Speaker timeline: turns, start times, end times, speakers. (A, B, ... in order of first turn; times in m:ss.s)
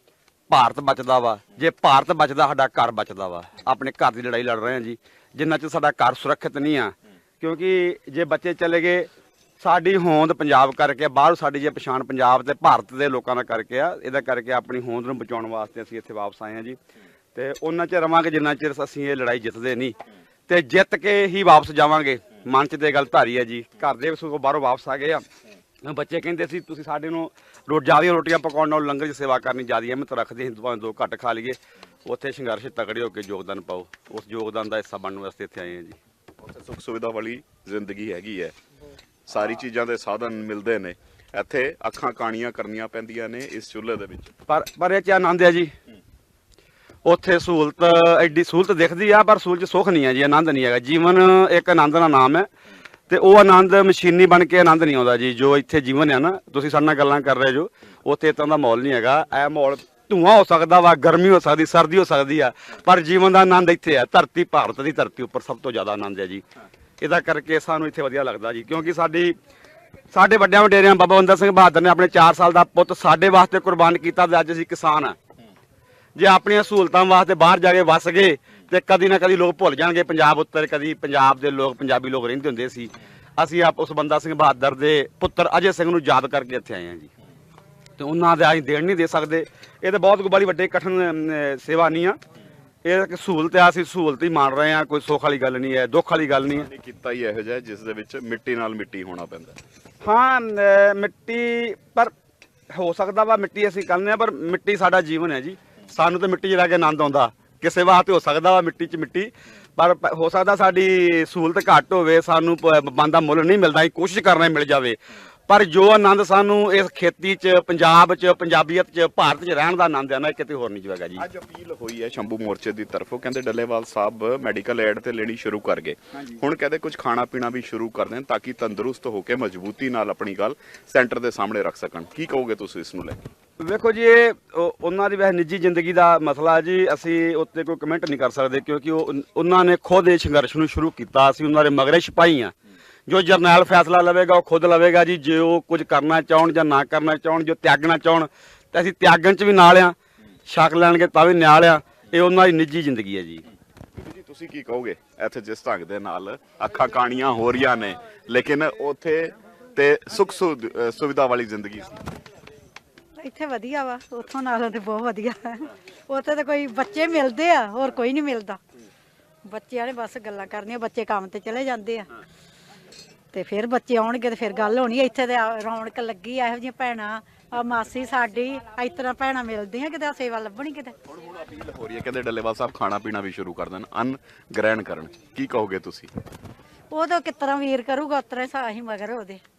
0:00.5-0:16.8 A
0:17.4-0:20.0 A
0:20.5-0:25.2 A
0:25.8-0:36.0 A
0:36.4-0:38.5 B
0:39.3-0:44.3 B
0:44.5-0:45.7 A
0:47.0-0:52.5 A
0:53.1-1:06.4 A
1:07.0-1:09.4 A
1:10.1-1:15.2 A
1:16.2-1:27.1 A
1:28.0-1:32.2 A
1:32.8-1:36.7 A
1:36.5-1:39.6 B
1:40.0-1:42.1 A
1:42.7-2:01.2 A
2:01.2-2:13.2 B
2:13.6-2:22.5 A
2:23.1-2:30.0 A
2:30.5-2:33.4 A
2:34.0-2:42.0 B
2:43.2-2:48.6 C
2:49.5-2:52.1 C
2:53.3-3:01.0 C
3:01.1-3:06.1 B
3:06.9-3:09.4 C